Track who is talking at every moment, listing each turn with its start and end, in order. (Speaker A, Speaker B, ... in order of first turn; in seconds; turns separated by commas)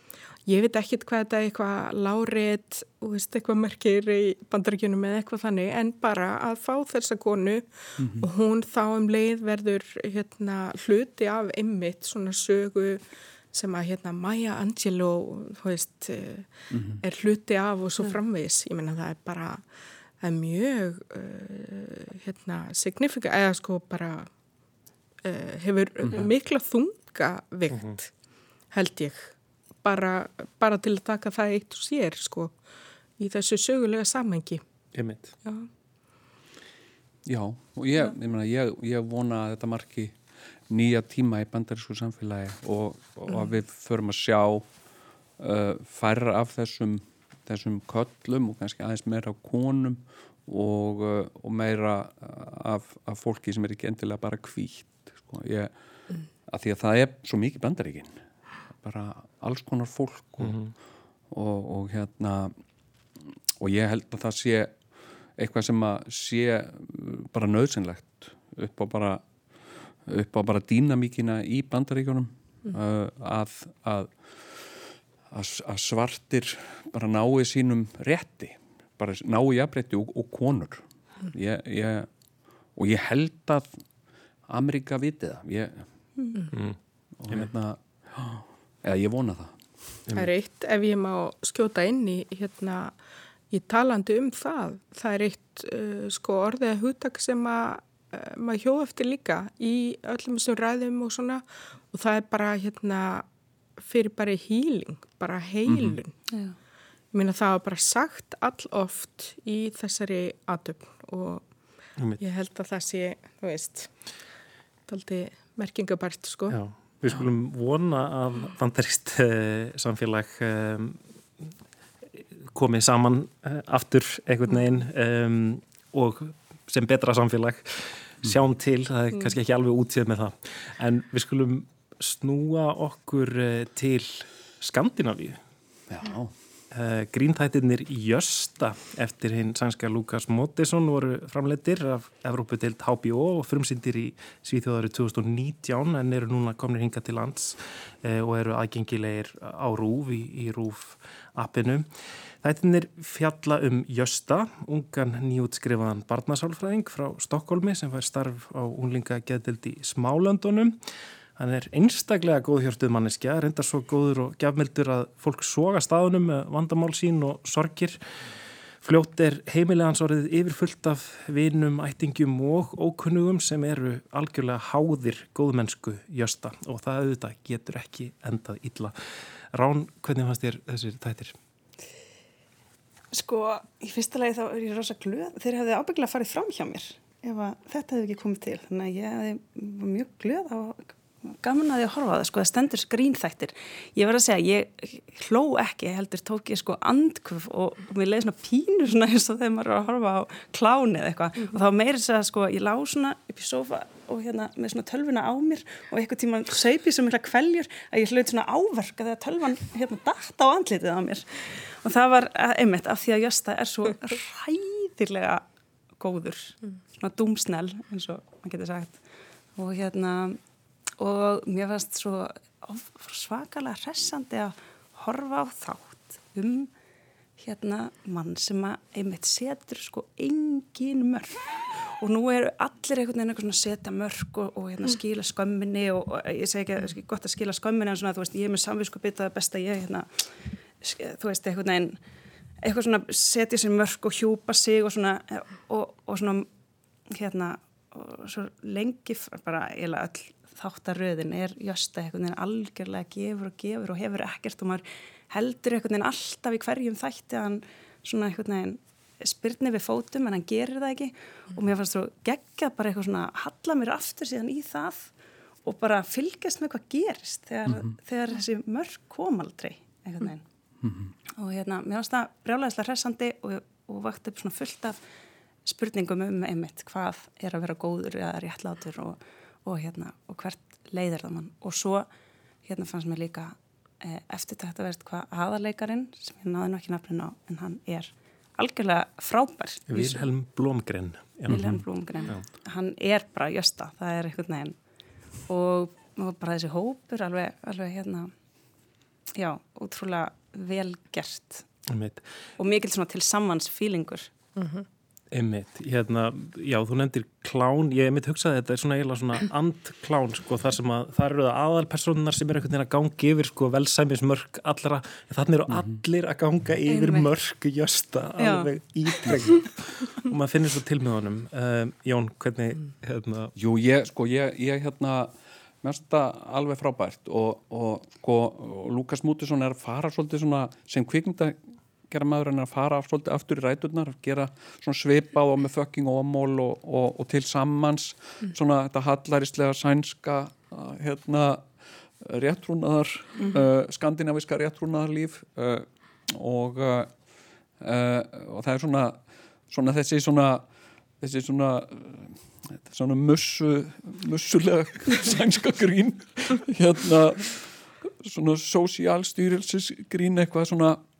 Speaker A: 0.5-19.6, Speaker B: 8.0-8.3, Speaker B: 16.7-17.0, Speaker A: 20.2-24.3, Speaker A: 25.2-28.1, Speaker C: 27.7-27.9, Speaker A: 28.7-32.5, Speaker A: 33.2-34.6, Speaker C: 34.9-35.3, Speaker B: 37.2-40.2, Speaker B: 40.7-44.6, Speaker B: 45.4-55.7, Speaker B: 56.5-58.1, Speaker B: 58.7-60.6, Speaker C: 60.4-60.7, Speaker B: 61.3-62.5, Speaker B: 63.6-64.7, Speaker B: 65.4-69.2, Speaker B: 70.0-82.1, Speaker B: 82.8-83.8, Speaker B: 84.5-85.8, Speaker C: 86.5-86.8, Speaker B: 87.2-89.6, Speaker A: 90.1-93.0, Speaker A: 93.5-103.2, Speaker A: 103.8-106.1, Speaker A: 107.1-111.5, Speaker A: 112.2-113.9, Speaker A: 114.9-116.6, Speaker C: 116.5-121.0, Speaker C: 122.5-135.4, Speaker B: 135.9-136.3, Speaker C: 136.7-151.9, Speaker C: 152.4-160.8, Speaker C: 161.4-168.0, Speaker C: 168.8-178.9, Speaker C: 179.5-181.3, Speaker D: 183.1-215.4, Speaker D: 216.0-219.0, Speaker D: 219.6-220.4, Speaker D: 221.0-226.7, Speaker D: 227.4-242.0, Speaker D: 242.6-246.5, Speaker D: 247.1-265.1, Speaker D: 265.6-270.4, Speaker B: 267.6-267.9, Speaker B: 270.8-271.1, Speaker D: 271.4-275.0, Speaker D: 275.6-282.1, Speaker D: 282.6-290.3, Speaker C: 289.9-292.4, Speaker D: 291.5-294.8, Speaker D: 295.5-298.3, Speaker D: 299.3-301.7, Speaker C: 301.9-302.2, Speaker D: 302.6-304.3, Speaker A: 304.6-304.8, Speaker C: 305.3-323.5, Speaker B: 315.7-316.0, Speaker D: 316.9-317.3, Speaker D: 318.4-318.7, Speaker B: 323.6-331.6, Speaker B: 332.1-347.1, Speaker B: 347.8-350.6, Speaker B: 351.2-361.0